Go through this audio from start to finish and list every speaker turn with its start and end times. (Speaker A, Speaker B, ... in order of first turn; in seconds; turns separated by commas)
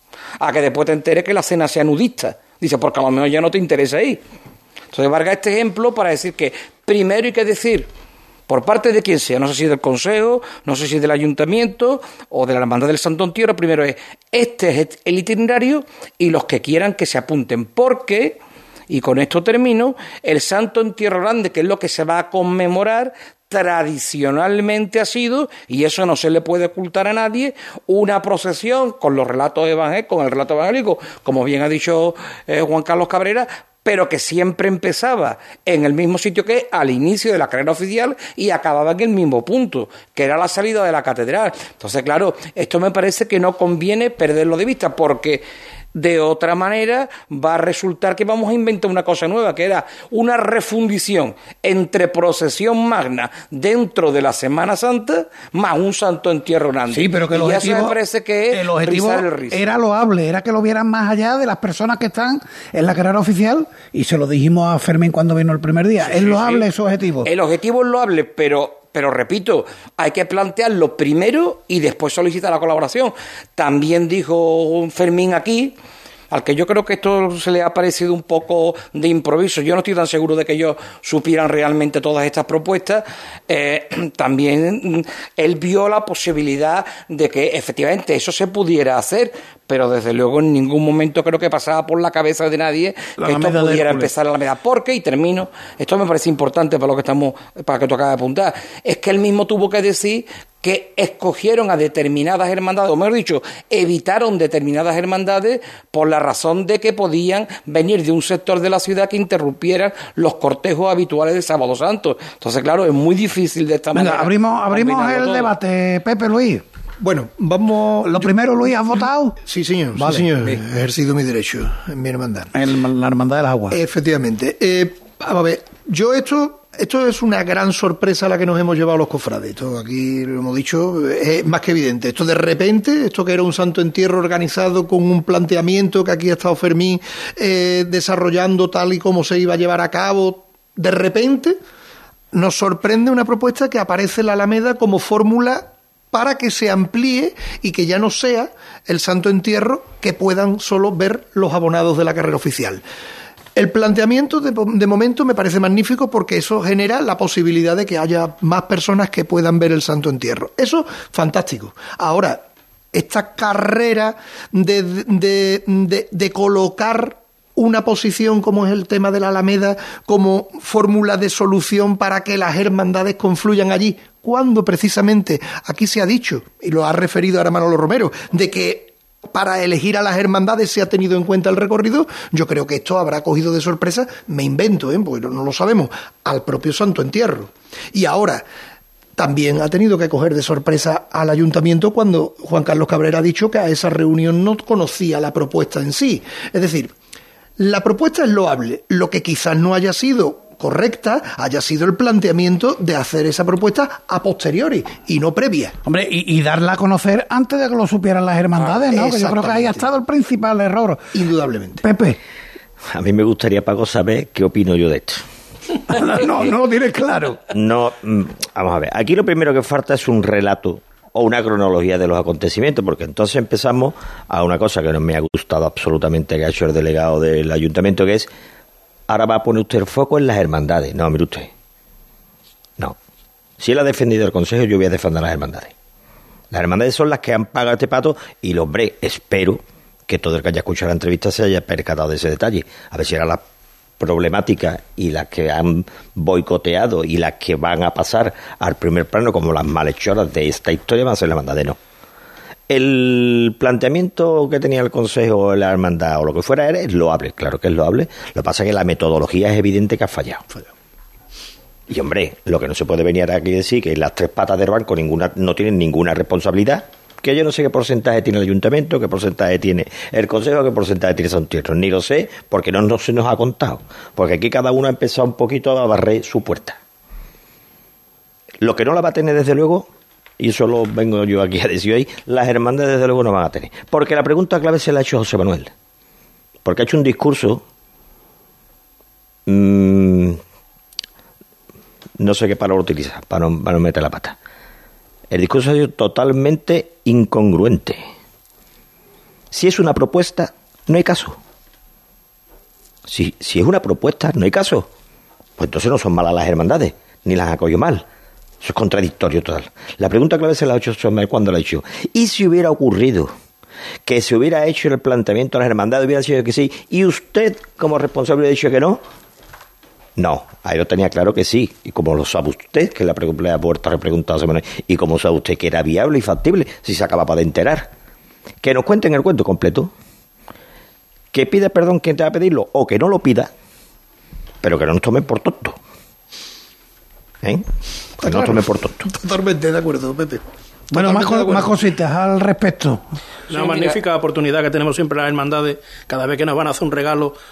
Speaker A: 0.4-4.2, Speaker A: 4.9-7.9, Speaker A: 8.5-59.6, Speaker B: 56.9-58.0, Speaker B: 58.5-67.3, Speaker A: 66.0-66.7, Speaker A: 67.2-75.7, Speaker A: 76.3-115.5, Speaker B: 93.2-94.1, Speaker B: 113.9-116.6, Speaker C: 117.0-118.7, Speaker B: 118.1-119.4, Speaker C: 119.4-122.5, Speaker B: 120.0-120.6, Speaker B: 122.5-123.8, Speaker C: 123.7-141.6, Speaker C: 142.3-152.8, Speaker C: 153.6-188.4, Speaker C: 189.2-196.9, Speaker C: 197.6-205.7, Speaker B: 205.8-211.0, Speaker C: 208.6-209.9, Speaker C: 211.1-211.8, Speaker B: 211.8-212.2, Speaker D: 212.9-215.2, Speaker B: 215.9-217.4, Speaker D: 217.5-228.3, Speaker D: 229.1-231.5, Speaker D: 233.6-235.7, Speaker D: 236.5-243.4, Speaker D: 244.0-251.8, Speaker D: 252.7-260.4, Speaker D: 261.9-276.8, Speaker D: 278.6-279.9, Speaker D: 280.4-285.7, Speaker D: 286.6-287.6, Speaker D: 289.5-290.4, Speaker D: 292.2-294.4, Speaker D: 295.3-298.0, Speaker D: 299.5-301.4, Speaker D: 303.1-304.9, Speaker D: 305.6-308.0, Speaker D: 308.6-313.3, Speaker D: 314.1-319.0, Speaker D: 320.2-327.9, Speaker D: 328.6-329.9, Speaker D: 331.3-333.5, Speaker D: 334.6-335.8, Speaker D: 338.2-339.1, Speaker C: 338.2-341.7, Speaker B: 340.9-343.0, Speaker E: 343.5-347.4, Speaker A: 343.6-343.9